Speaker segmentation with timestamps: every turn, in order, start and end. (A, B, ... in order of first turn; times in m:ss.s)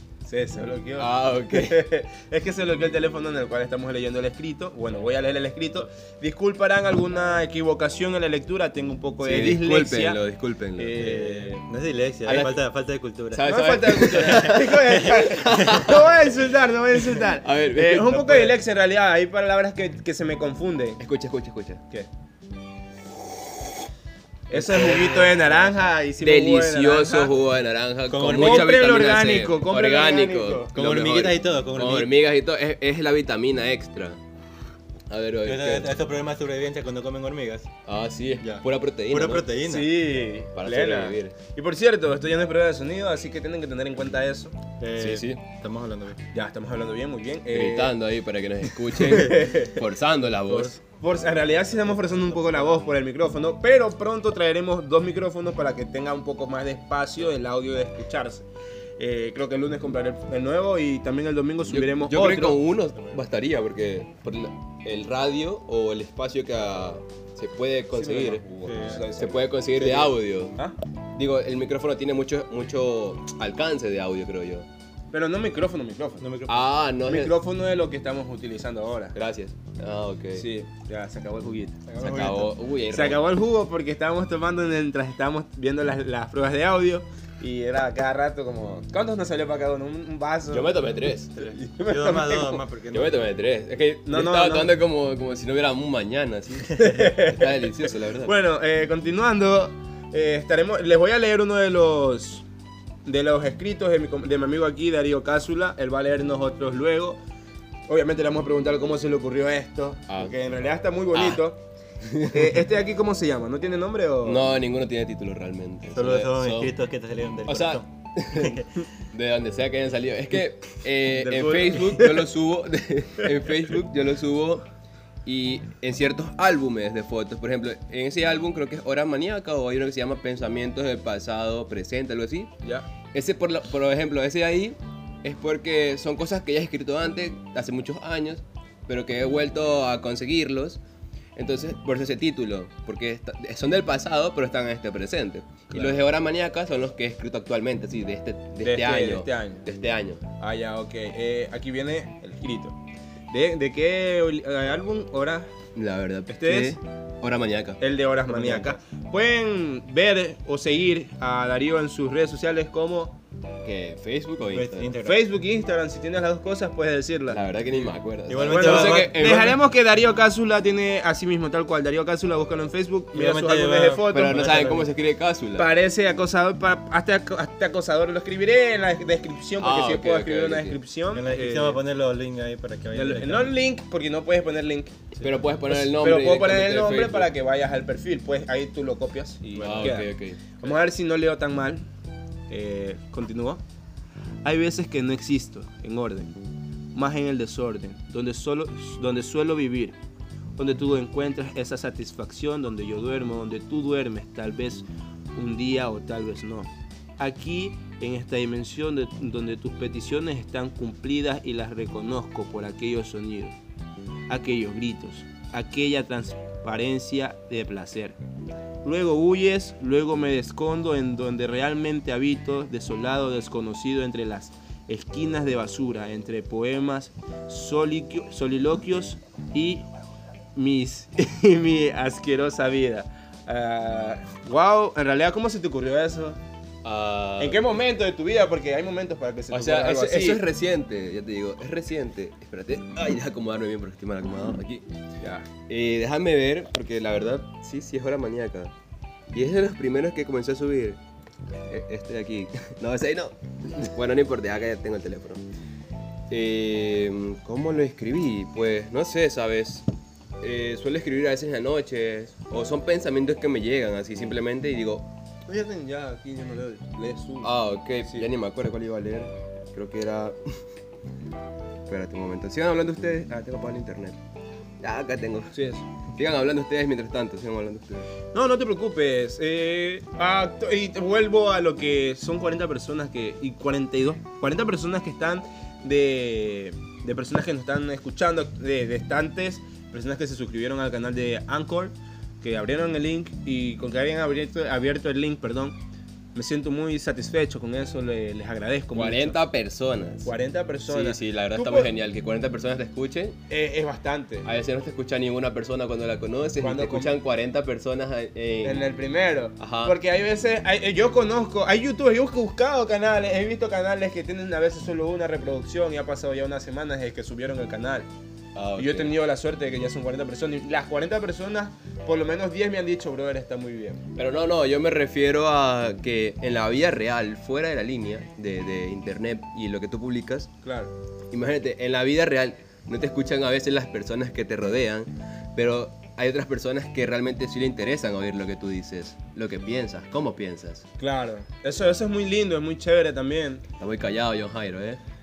0:00.2-0:10.2 A
0:01.0-0:01.8 B
0:09.2-0:11.2 B
0:10.8-0:11.5 A
0:11.0-0:13.6 C
0:12.2-0:12.6 B
0:13.3-0:16.3 B
0:13.3-0:21.0 A
0:14.2-0:15.9 C
0:17.0-0:18.6 B
0:21.0-0:21.8 B
0:24.5-0:27.3 A
0:24.6-0:25.4 B
0:24.6-0:25.2 C
0:26.2-0:34.2 B
0:28.1-0:28.8 C
0:28.3-0:30.7 A
0:30.7-0:32.1 C
0:35.1-0:35.9 B
0:35.4-0:37.7 C
0:37.8-0:39.5 B
0:38.4-0:39.9 C
0:39.6-0:44.5 A
0:40.5-0:41.4 B
0:44.8-0:46.2 C
0:45.0-0:45.4 B
0:46.3-0:47.9 A
0:47.5-0:50.7 B
0:49.0-0:49.8 A
0:50.5-0:58.4 A
0:52.3-0:52.8 C
0:59.0-1:02.6 A
1:01.7-1:08.4 B
1:07.9-1:10.8 A
1:08.6-1:09.0 C
1:09.2-1:10.6 B
1:11.1-1:14.7 B
1:15.1-1:16.2 A
1:16.2-1:16.6 C
1:16.5-1:17.4 B
1:17.0-1:19.2 A
1:19.1-1:20.4 B
1:20.4-1:30.8 A
1:22.0-1:22.4 C
1:22.0-1:23.3 B
1:30.5-1:31.5 B
1:31.4-1:32.6 A
1:31.8-1:33.2 C
1:32.9-1:38.3 B
1:34.1-1:34.7 A
1:36.8-1:42.4 A
1:43.0-1:47.2 A
1:47.9-1:51.6 A
1:50.1-1:50.3 B
1:51.1-1:51.4 B
1:52.0-1:52.6 B
1:52.3-1:54.5 A
1:54.2-1:56.7 B
1:55.9-1:58.6 C
1:57.5-1:58.6 B
1:59.1-2:04.6 B
2:01.1-2:02.3 A
2:05.2-2:12.5 B
2:13.1-2:20.8 B
2:21.4-2:30.2 B
2:25.7-2:26.0 A
2:28.6-2:29.6 A
2:30.4-2:32.7 A
2:33.3-2:35.5 A
2:35.7-2:37.8 B
2:36.3-2:36.8 A
2:37.8-2:43.2 A
2:38.3-2:38.8 C
2:43.6-2:44.9 B
2:44.5-2:45.2 C
2:45.0-2:47.4 A
2:47.3-2:49.6 B
2:48.3-2:49.2 C
2:48.4-2:54.8 A
2:53.1-2:54.8 C
2:54.1-2:55.7 B
2:55.6-3:01.8 A
2:59.6-3:00.8 B
3:01.1-3:03.5 C
3:02.9-3:05.1 A
3:05.2-3:07.3 B
3:05.6-3:11.8 A
3:09.6-3:10.4 B
3:12.5-3:13.6 A
3:14.4-3:16.3 A
3:16.9-3:19.9 A
3:20.6-3:33.6 A
3:34.3-3:38.2 A
3:38.8-3:49.8 A
3:50.5-3:56.4 A
3:56.8-3:57.7 B
3:57.4-4:00.4 A
3:59.5-4:04.8 B
4:05.2-4:05.5 A
4:05.6-4:08.7 B
4:09.3-4:11.0 B
4:11.6-4:15.4 B
4:16.3-4:19.8 B
4:20.4-4:25.1 B
4:25.5-4:28.3 A
4:27.4-4:30.6 B
4:31.9-4:34.2 B
4:34.8-4:35.6 B
4:35.5-4:35.8 A
4:36.1-4:38.1 B
4:38.3-4:55.7 A
4:56.3-4:59.4 A
4:58.9-5:00.3 B
5:00.2-5:01.9 A
5:00.9-5:03.4 B
5:03.5-5:04.5 A
5:04.4-5:08.8 B
5:06.6-5:07.1 A
5:08.6-5:18.1 A
5:09.6-5:10.0 B
5:18.5-5:19.1 B
5:18.8-5:24.0 A
5:24.2-5:30.5 B
5:30.6-5:30.9 A
5:31.3-5:40.8 B
5:41.0-5:43.6 A
5:43.8-5:45.0 B